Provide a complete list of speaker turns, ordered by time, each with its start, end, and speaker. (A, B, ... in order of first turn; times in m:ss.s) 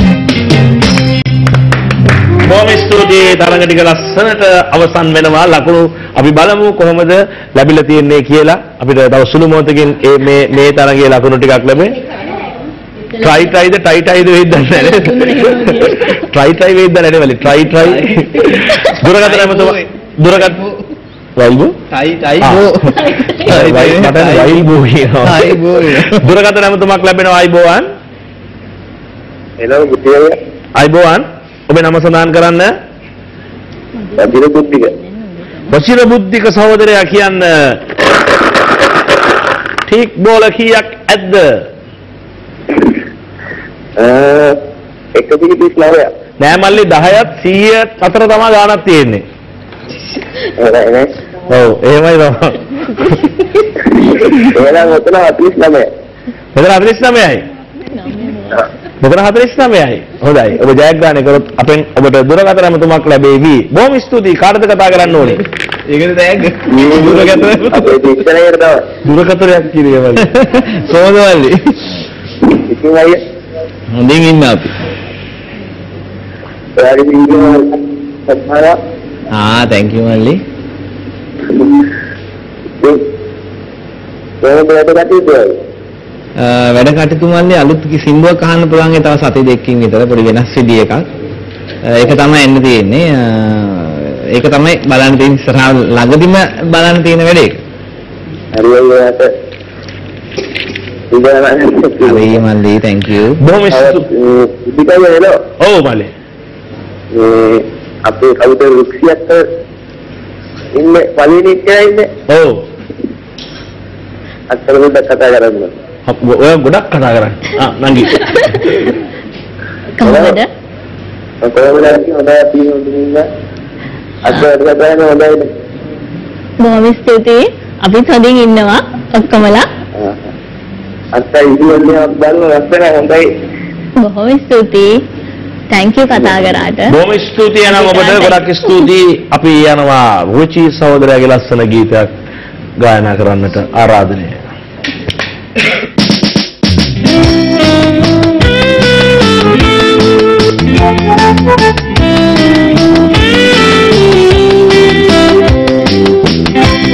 0:02.4-0:12.0 A
0:13.2-0:20.6 A
0:14.6-0:16.3 B
0:17.7-0:20.8 C
0:21.4-0:21.8 A
0:21.9-0:24.7 C
0:22.4-0:22.7 A
0:23.1-0:23.3 B
0:23.4-0:27.9 A
0:25.2-0:26.3 C
0:29.6-0:30.4 D
0:30.8-0:32.7 A
0:34.0-0:35.7 B
0:34.2-0:34.9 D
0:35.7-0:37.8 A
0:39.9-0:41.6 A
0:44.0-0:44.6 D
0:45.1-0:46.1 D
0:46.4-0:49.2 A
0:50.6-0:51.1 D
0:51.5-0:53.2 A
0:54.3-0:55.9 D
0:56.5-0:57.4 A
0:57.9-0:58.6 B
0:59.0-1:05.4 A
1:05.2-1:08.0 C
1:06.7-1:08.8 D
1:09.0-1:10.3 A
1:10.2-1:12.0 C
1:12.5-1:13.2 D
1:13.9-1:14.7 C
1:16.8-1:18.8 D
1:19.3-1:20.4 C
1:21.5-1:21.8 D
1:22.8-1:23.0 D
1:24.4-1:25.6 D
1:26.4-1:31.0 C
1:31.8-1:37.6 C
1:38.5-1:39.3 D
1:41.1-1:42.4 D
1:42.0-1:43.4 C
1:43.4-1:44.0 A
1:43.7-1:45.4 D
1:45.6-1:46.1 A
1:47.1-1:49.4 D
1:50.7-1:52.1 D
1:52.3-1:52.6 A
1:54.5-1:55.7 D
1:56.1-1:58.3 A
2:00.0-2:00.5 B
2:00.0-2:00.4 D
2:01.4-2:03.2 D
2:04.2-2:05.5 D
2:06.6-2:09.6 B
2:10.0-2:10.3 D
2:11.1-2:13.2 D
2:14.0-2:15.0 B
2:15.7-2:16.9 B
2:16.9-2:22.1 A
2:17.7-2:18.7 B
2:22.8-2:24.4 A